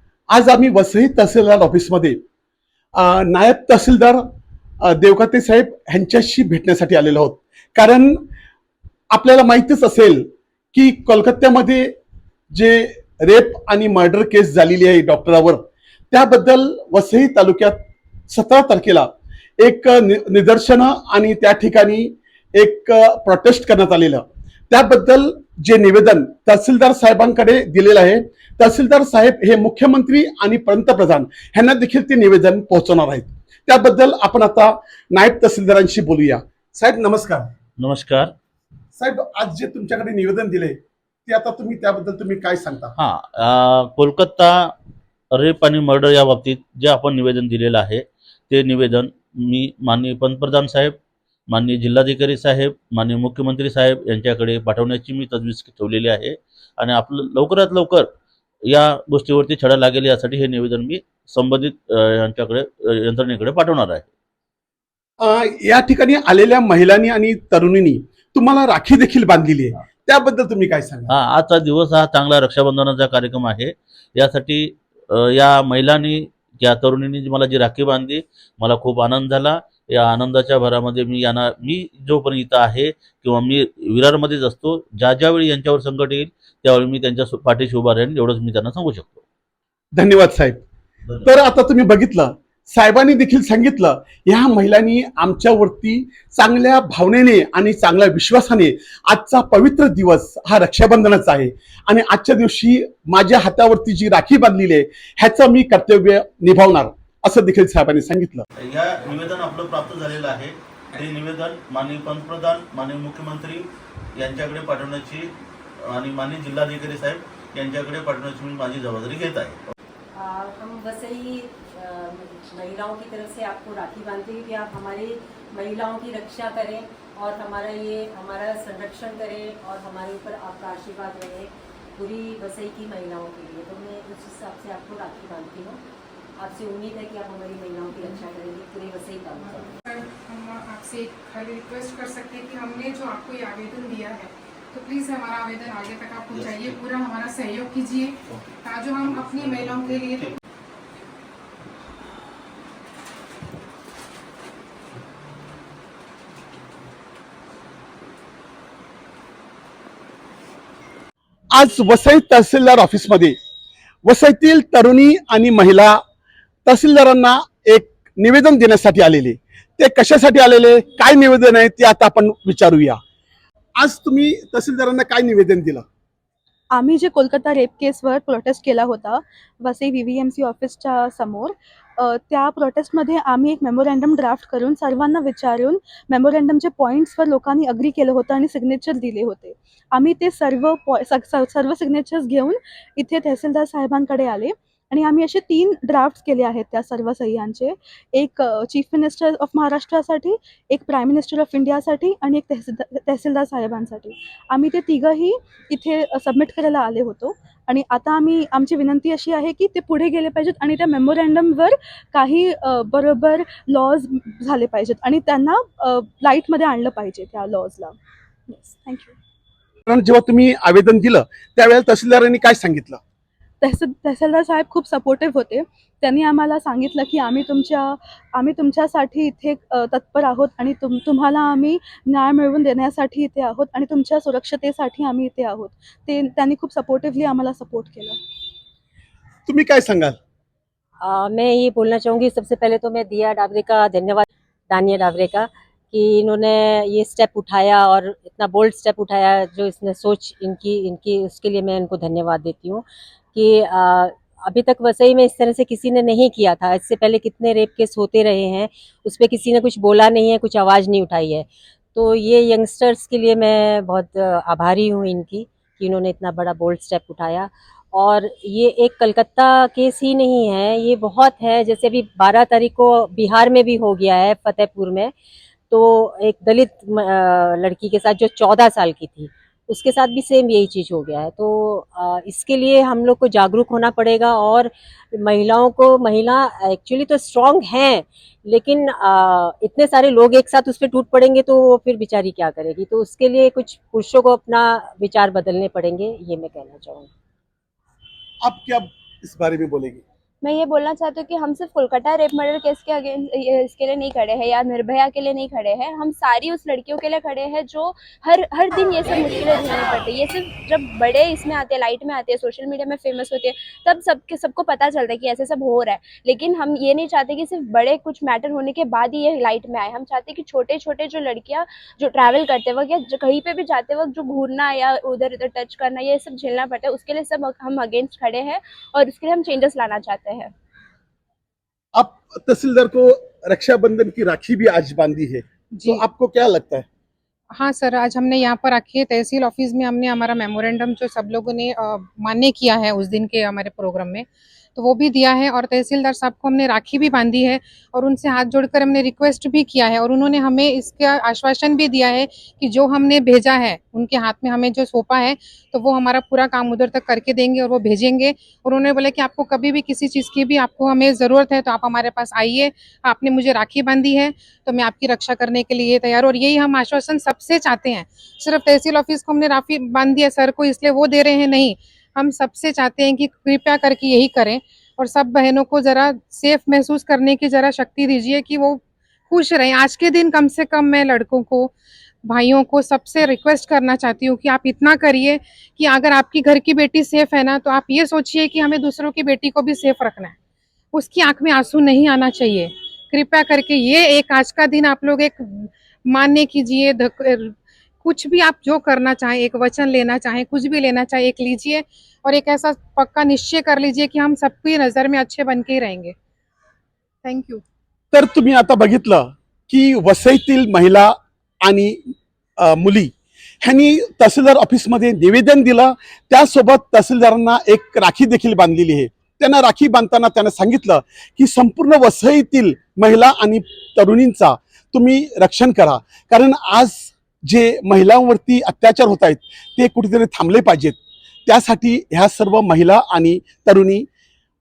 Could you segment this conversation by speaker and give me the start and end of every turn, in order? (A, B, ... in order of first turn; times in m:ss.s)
0:00.3-0:02.2 A
0:03.0-0:04.2 A
0:04.8-0:08.2 A
0:09.1-0:12.0 A
0:12.5-0:17.8 A
0:18.3-0:37.5 A
0:37.8-0:38.3 B
0:39.0-0:43.0 A
0:43.0-0:44.7 B
0:45.3-0:51.0 B
0:51.5-0:58.1 B
0:58.7-1:04.1 B
1:05.2-1:11.1 A
1:11.1-1:29.2 B
1:30.0-1:30.6 A
1:31.2-1:48.4 A
1:48.6-1:59.6 B
2:00.1-2:15.8 C
2:16.4-2:19.8 C
2:19.6-2:30.4 D
2:26.3-2:26.8 B
2:29.2-2:30.3 B
2:41.5-2:43.4 A
2:44.0-2:46.0 A
2:46.6-2:53.0 A
2:53.8-2:55.8 A
2:56.7-3:38.0 E
3:38.5-3:39.1 E
3:39.9-3:43.0 A
3:43.6-3:58.2 E
3:59.4-4:00.2 A
4:01.0-4:35.1 C
4:35.7-4:57.1 C
4:58.4-5:00.0 A
5:00.4-5:30.5 F
5:31.9-5:36.8 A
5:35.7-5:36.0 D
5:37.5-6:21.7 D
6:22.2-6:30.3 D
6:30.9-6:46.1 D
6:47.2-6:47.6 D
6:48.1-6:52.0 A
6:52.6-7:14.1 A